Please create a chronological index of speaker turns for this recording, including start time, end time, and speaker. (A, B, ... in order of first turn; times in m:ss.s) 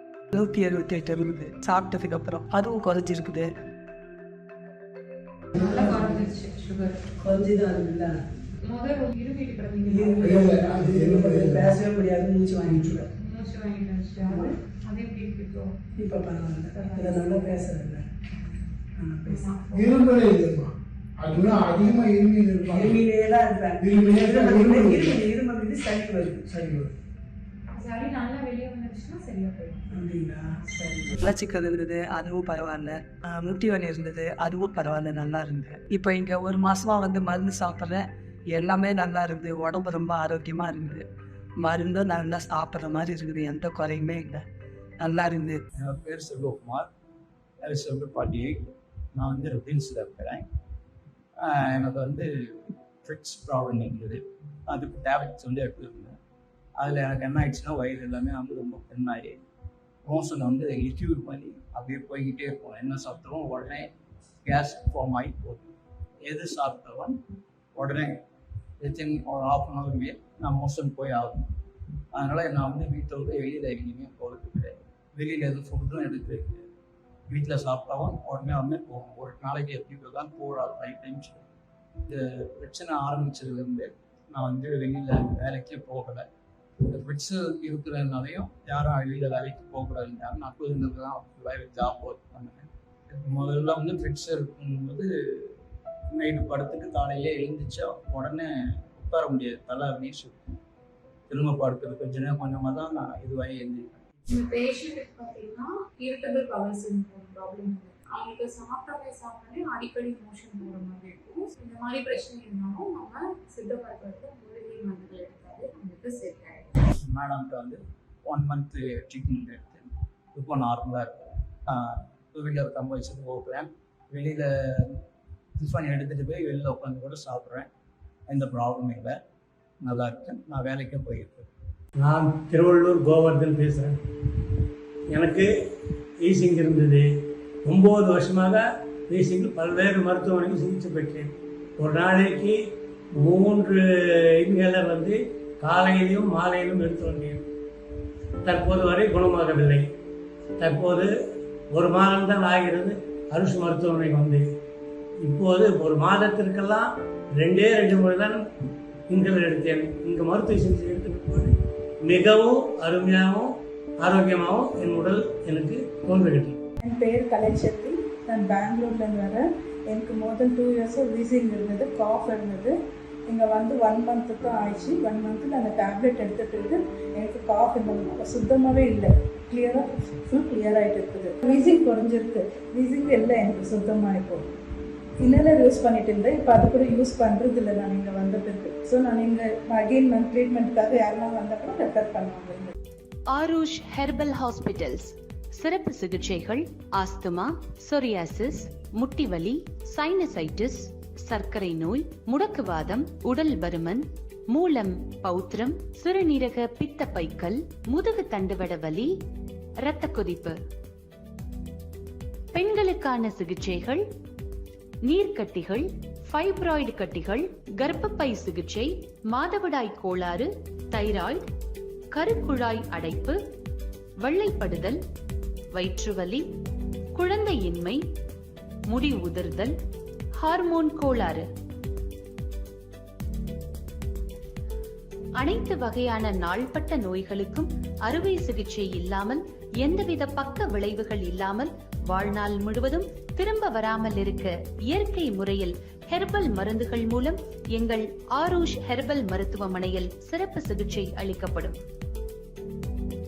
0:00.3-0:03.5 A
0:05.6-0:07.0 B
0:05.6-0:06.2 A
0:07.2-0:08.2 A
0:08.7-0:10.4 B
0:09.9-0:13.1 A
0:10.2-0:11.6 C
0:13.2-0:15.7 B
0:16.0-0:18.0 A
0:16.7-0:17.7 B
0:19.0-0:19.4 A
0:19.2-0:20.4 B
0:19.7-0:23.0 C
0:22.7-0:26.8 A
0:23.8-0:25.1 C
0:27.7-0:29.9 B
0:29.9-0:41.1 A
0:41.6-0:44.4 A
0:45.0-0:45.6 A
0:45.8-0:46.9 D
0:47.6-0:50.5 D
0:51.4-0:56.2 D
0:56.8-0:59.4 D
1:00.0-1:03.9 D
1:04.4-1:05.7 D
1:06.2-1:07.2 D
1:07.8-1:08.2 D
1:08.8-1:11.5 D
1:12.1-1:16.7 D
1:17.3-1:21.5 D
1:22.1-1:26.3 D
1:26.9-1:35.6 D
1:36.1-1:40.4 D
1:41.3-1:44.0 D
1:44.3-1:56.8 B
1:57.0-2:05.0 D
2:05.6-2:07.7 D
2:08.3-2:09.2 D
2:09.8-2:11.5 D
2:12.0-2:14.0 E
2:15.1-2:15.5 E
2:16.2-2:17.1 E
2:17.6-2:22.6 E
2:23.2-2:23.8 E
2:24.4-2:27.4 E
2:28.4-2:29.9 E
2:30.6-2:31.1 E
2:31.7-2:34.5 E
2:35.2-2:38.5 E
2:39.1-2:41.5 E
2:42.0-2:46.6 E
2:46.8-3:04.5 F
3:05.2-3:12.8 F
3:13.3-3:29.2 G
3:29.8-3:30.6 G
3:32.5-3:34.0 G
3:35.0-3:41.5 G
3:42.1-3:43.4 G
3:44.2-3:45.0 G
3:45.7-3:46.5 G
3:47.2-3:48.0 G
3:48.9-3:49.8 G
3:50.4-3:51.5 G
3:55.4-4:11.8 G